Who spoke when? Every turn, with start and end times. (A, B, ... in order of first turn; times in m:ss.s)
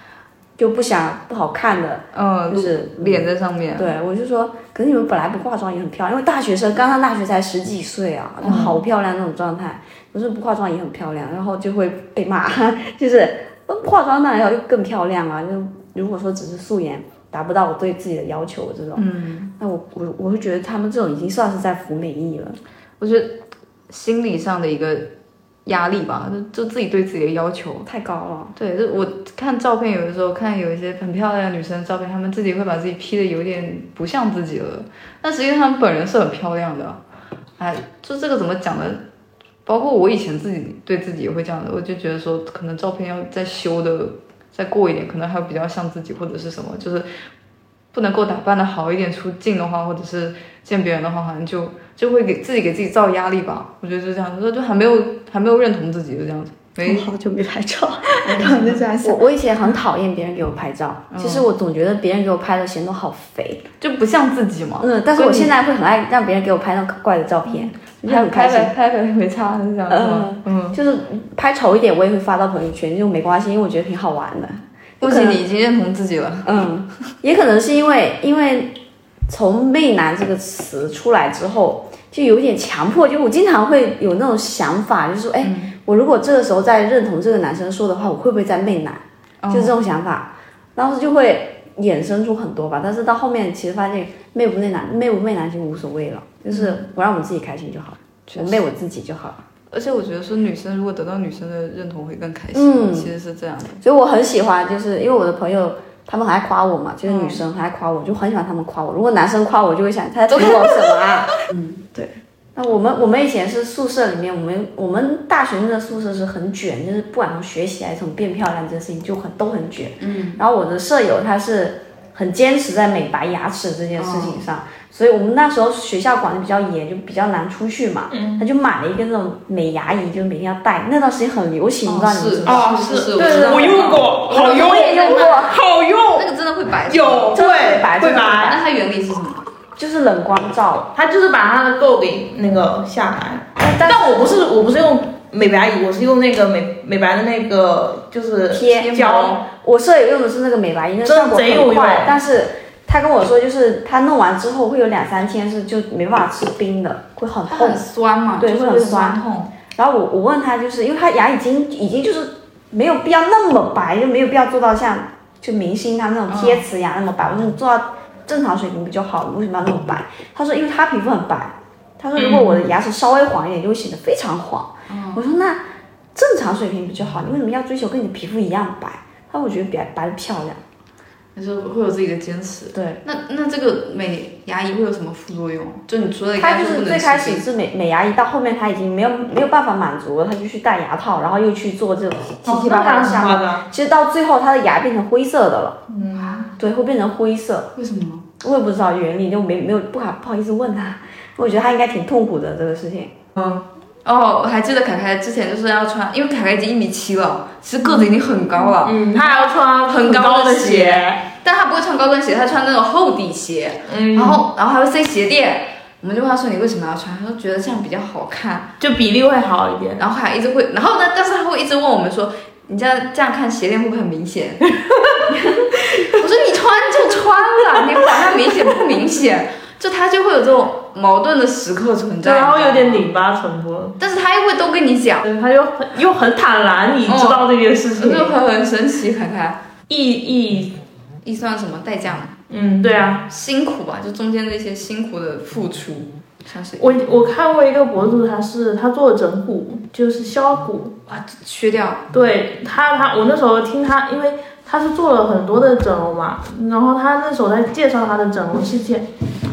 0:00.6-0:19.0 A
0:02.1-0:03.9 B
0:08.4-0:08.8 B
0:19.0-0:19.5 B
0:19.6-0:22.6 A
0:23.0-0:25.1 B
0:25.6-0:27.9 B
0:27.8-0:28.5 A
0:28.6-0:37.0 B
0:37.6-0:39.0 B
0:39.6-0:47.1 B
0:47.9-0:57.1 B
0:56.8-0:59.2 C
0:58.2-0:58.9 B
0:59.0-1:03.6 A
1:01.1-1:01.4 B
1:03.8-1:05.5 B
1:04.8-1:08.7 A
1:07.5-1:10.8 B
1:09.9-1:15.4 A
1:15.0-1:16.6 B
1:16.4-1:18.7 A
1:19.3-1:39.4 A
1:25.4-1:25.7 B
1:29.4-1:29.8 B
1:36.5-1:36.8 B
1:38.3-1:38.6 B
1:39.7-1:43.8 B
1:42.5-1:43.1 A
1:43.8-1:51.3 A
1:47.0-1:47.4 B
1:50.3-1:51.8 B
1:51.9-2:15.6 A
2:00.0-2:00.4 B
2:04.0-2:04.4 B
2:08.1-2:08.5 D
2:11.8-2:19.4 B
2:12.4-2:16.3 D
2:16.9-2:18.5 D
2:17.3-2:18.6 A
2:19.8-2:20.9 A
2:20.9-2:29.4 D
2:23.6-2:24.3 A
2:28.5-2:28.9 A
2:28.6-2:29.4 B
2:29.5-2:37.8 A
2:31.0-2:32.1 D
2:37.5-2:39.5 B
2:38.4-2:39.2 A
2:39.7-2:55.6 A
2:46.3-2:46.6 B
2:52.1-2:52.6 D
2:54.9-2:55.2 B
2:56.1-3:00.6 A
3:01.3-3:07.4 B
3:02.7-3:03.0 A
3:06.4-3:15.8 A
3:12.4-3:13.6 D
3:15.9-3:16.5 D
3:16.1-3:16.5 B
3:16.6-3:17.7 A
3:17.8-3:18.3 B
3:18.4-3:23.1 A
3:23.4-3:38.7 B
3:28.8-3:31.2 D
3:33.9-3:34.4 D
3:38.8-3:40.0 D
3:40.0-3:44.8 B
3:46.0-3:53.1 B
3:52.2-3:54.0 D
3:54.0-3:55.3 B
3:55.2-3:58.4 D
3:57.0-3:59.6 B
3:59.9-4:00.7 D
4:01.2-4:02.4 B
4:02.5-4:03.2 D
4:03.3-4:07.0 B
4:06.8-4:11.0 D
4:11.1-4:12.0 B
4:12.1-4:19.0 D